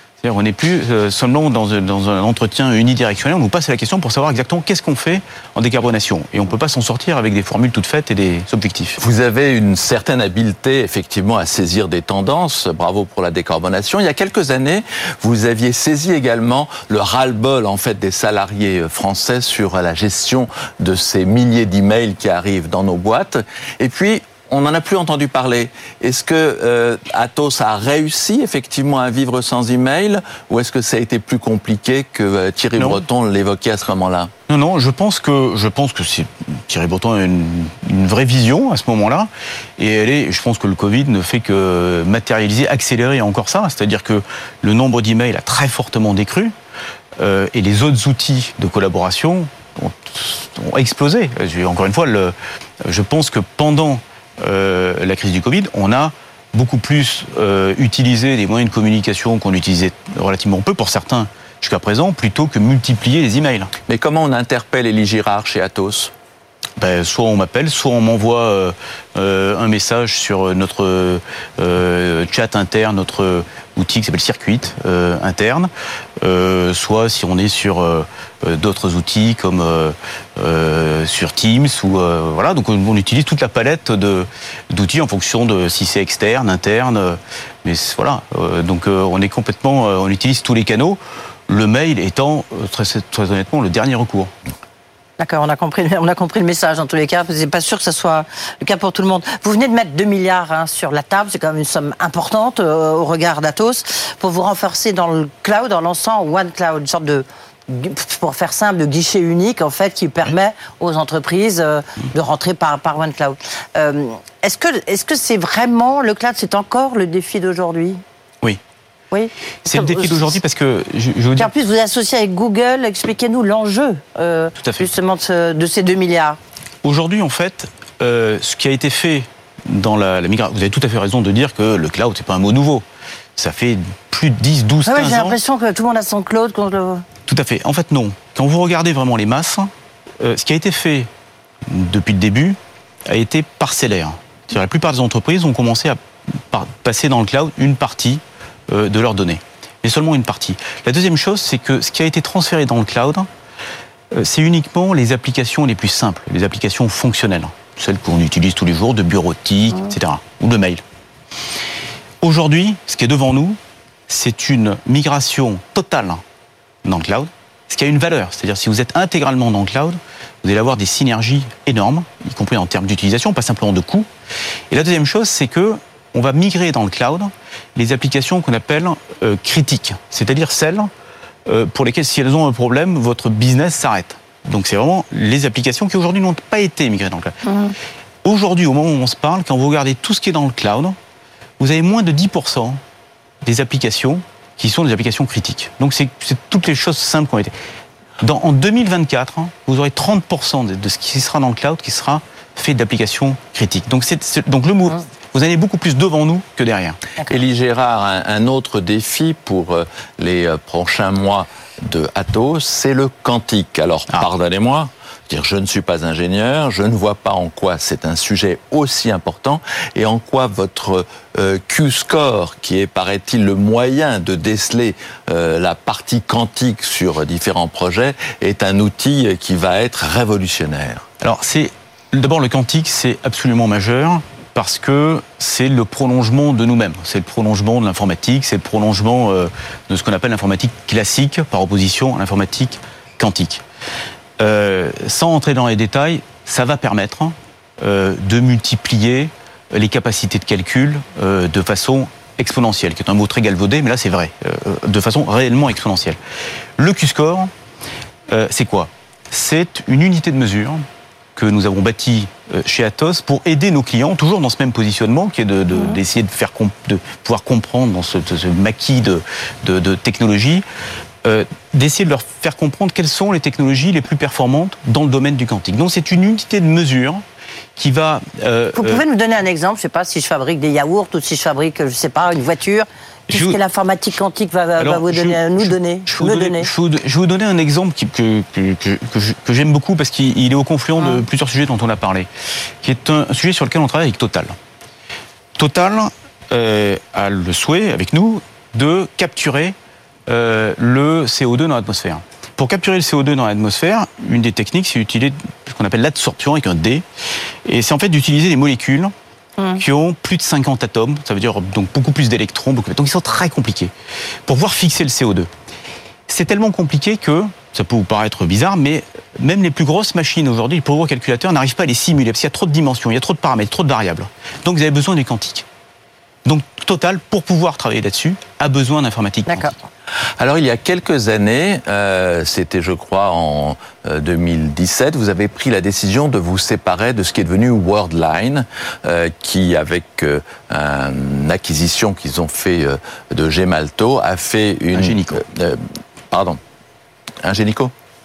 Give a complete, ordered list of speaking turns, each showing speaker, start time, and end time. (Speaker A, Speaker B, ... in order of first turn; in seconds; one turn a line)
Speaker A: 0.2-9.0
Speaker B: 9.0-34.3
Speaker A: 32.8-33.0
Speaker A: 34.5-46.5
Speaker A: 47.2-63.7
Speaker B: 63.9-66.1
Speaker A: 66.8-94.3
Speaker C: 95.2-118.0
Speaker C: 119.1-120.1
Speaker A: 119.7-121.5
Speaker C: 121.4-126.4
Speaker A: 124.6-124.9
Speaker A: 126.8-132.8
Speaker A: 133.4-135.4
Speaker C: 134.9-137.0
Speaker A: 137.3-141.1
Speaker A: 141.7-146.0
Speaker A: 146.5-153.3
Speaker A: 154.1-160.8
Speaker A: 162.2-166.2
Speaker A: 166.8-174.1
Speaker A: 174.7-180.9
Speaker A: 181.5-187.4
Speaker C: 187.4-187.7
Speaker A: 188.2-191.0
Speaker A: 191.6-192.8
Speaker A: 193.4-197.5
Speaker A: 198.2-207.0
Speaker B: 207.3-231.1
Speaker A: 231.2-243.6
Speaker A: 244.4-256.2
Speaker A: 256.8-257.5
Speaker A: 258.3-260.9
Speaker A: 261.4-270.6
Speaker A: 271.2-277.2
Speaker A: 277.8-279.0
Speaker C: 278.8-286.7
Speaker A: 283.3-283.6
Speaker A: 284.8-292.3
Speaker A: 292.8-294.6
Speaker A: 295.6-299.8
Speaker A: 300.3-307.1
Speaker A: 307.7-309.1
Speaker A: 309.8-313.9
Speaker A: 314.5-315.5
Speaker A: 316.3-325.7
Speaker A: 326.4-329.8
Speaker C: 329.5-329.7
Speaker B: 330.4-346.6
Speaker A: 344.9-345.4
Speaker B: 347.4-347.9